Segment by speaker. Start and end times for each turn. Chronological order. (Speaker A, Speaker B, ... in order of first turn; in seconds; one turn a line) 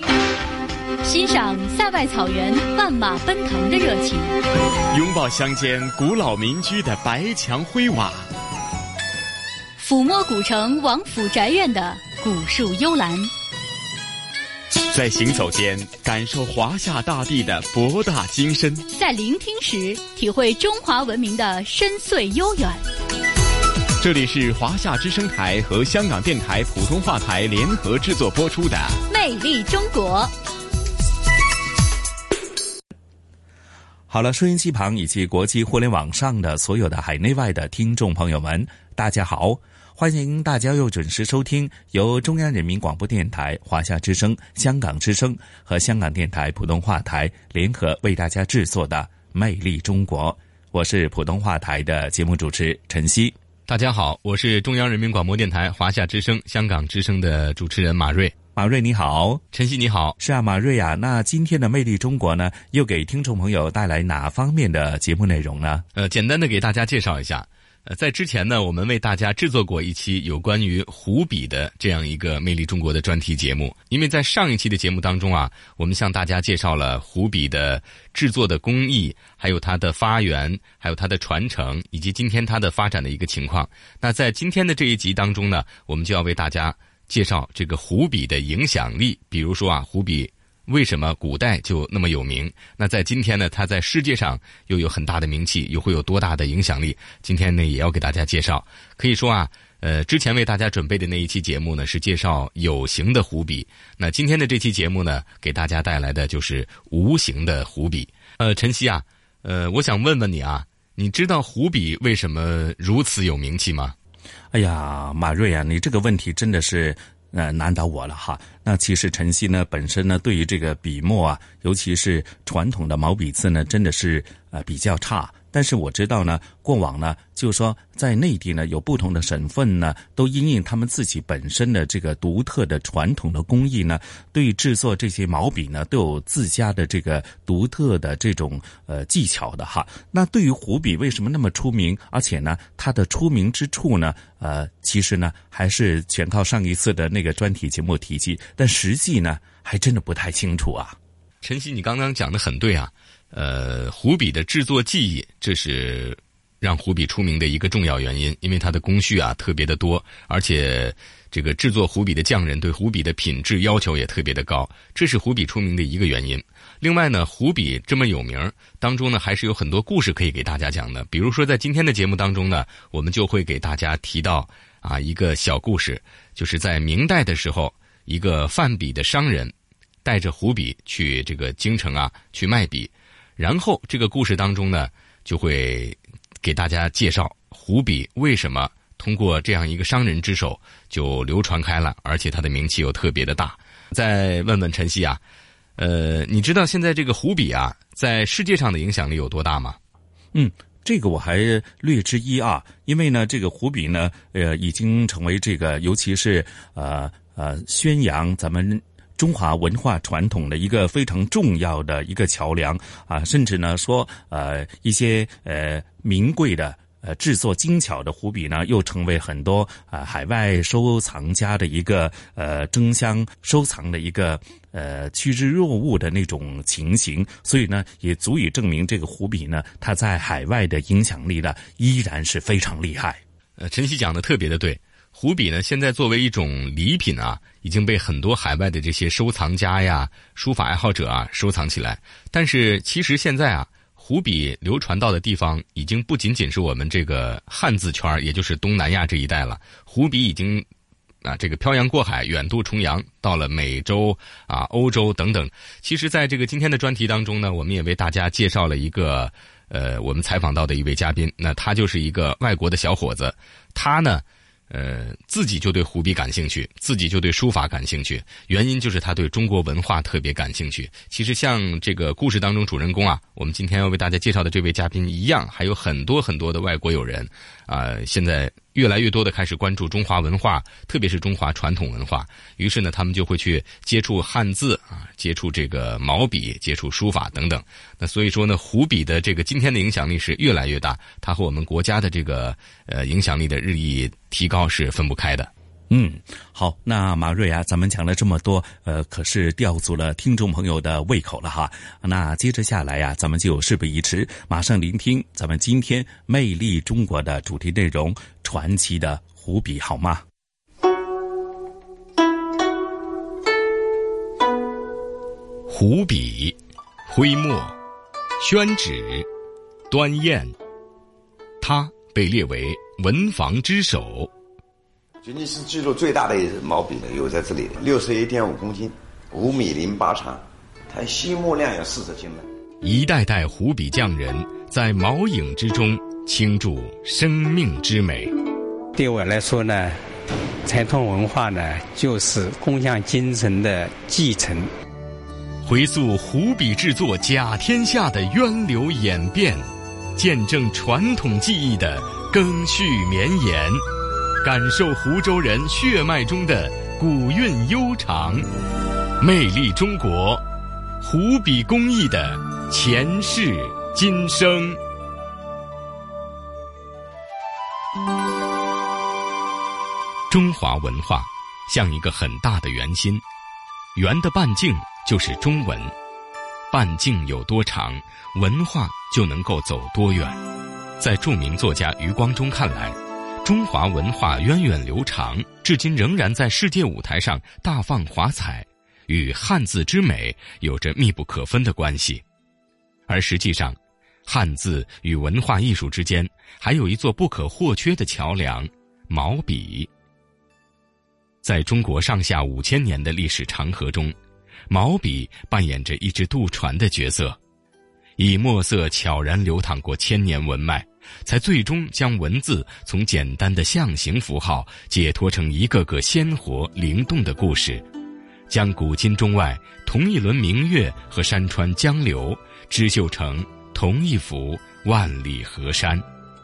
Speaker A: 1.0-4.4
Speaker B: 4.9-8.3
Speaker A: 9.8-13.3
Speaker B: 14.7-18.9
Speaker A: 18.9-22.8
Speaker B: 24.0-29.0
Speaker A: 29.1-30.3
Speaker C: 34.1-53.4
Speaker D: 53.7-58.3
Speaker C: 58.5-59.4
Speaker D: 59.5-60.2
Speaker C: 60.2-65.8
Speaker D: 66.0-114.0
Speaker C: 114.5-151.0
Speaker D: 151.4-179.5
Speaker D: 180.0-195.2
Speaker D: 195.8-199.8
Speaker C: 200.3-233.2
Speaker D: 233.6-250.7
Speaker D: 251.2-295.5
Speaker C: 295.9-310.2
Speaker D: 315.7-316.6
Speaker D: 317.1-317.8
Speaker D: 318.4-319.3
Speaker D: 319.9-320.5
Speaker D: 321.6-324.3
Speaker E: 325.2-332.5
Speaker D: 332.8-338.3
Speaker F: 338.9-340.0
Speaker F: 340.6-344.7
Speaker D: 345.6-349.6
Speaker D: 350.2-353.8
Speaker D: 354.4-358.5
Speaker D: 359.2-360.4
Speaker D: 361.0-364.8
Speaker D: 370.3-373.2
Speaker D: 374.0-375.9
Speaker D: 376.7-380.4
Speaker D: 381.0-392.2
Speaker D: 393.1-399.9
Speaker D: 401.4-404.1
Speaker D: 404.7-407.4
Speaker D: 408.2-417.8
Speaker D: 418.5-426.0